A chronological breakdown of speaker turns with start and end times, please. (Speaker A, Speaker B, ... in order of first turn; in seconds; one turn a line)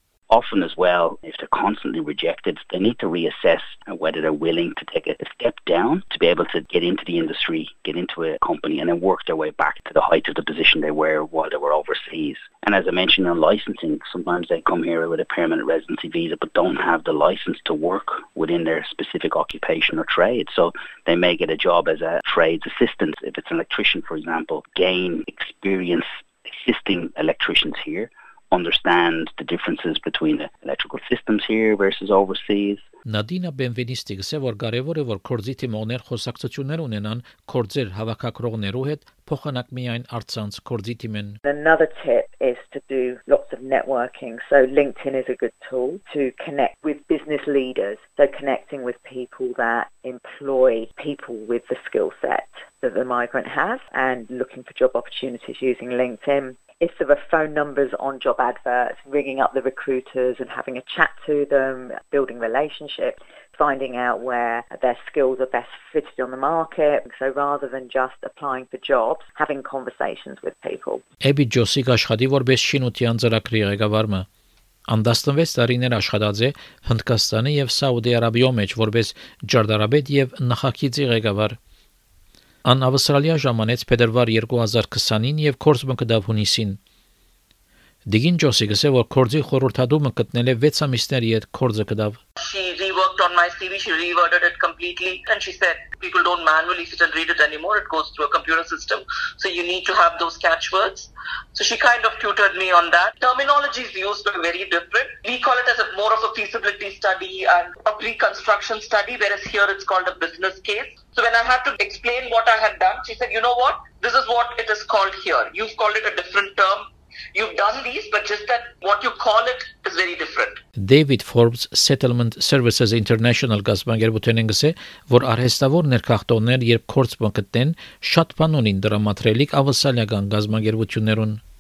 Speaker A: 0.3-32.9
Speaker B: 33.1-41.4
Speaker C: 41.4-71.0
Speaker B: 71.2-74.3
Speaker B: 74.9-81.6
Speaker B: 82.6-86.8
Speaker B: 88.1-92.2
Speaker D: 92.4-120.6
Speaker B: 120.8-131.4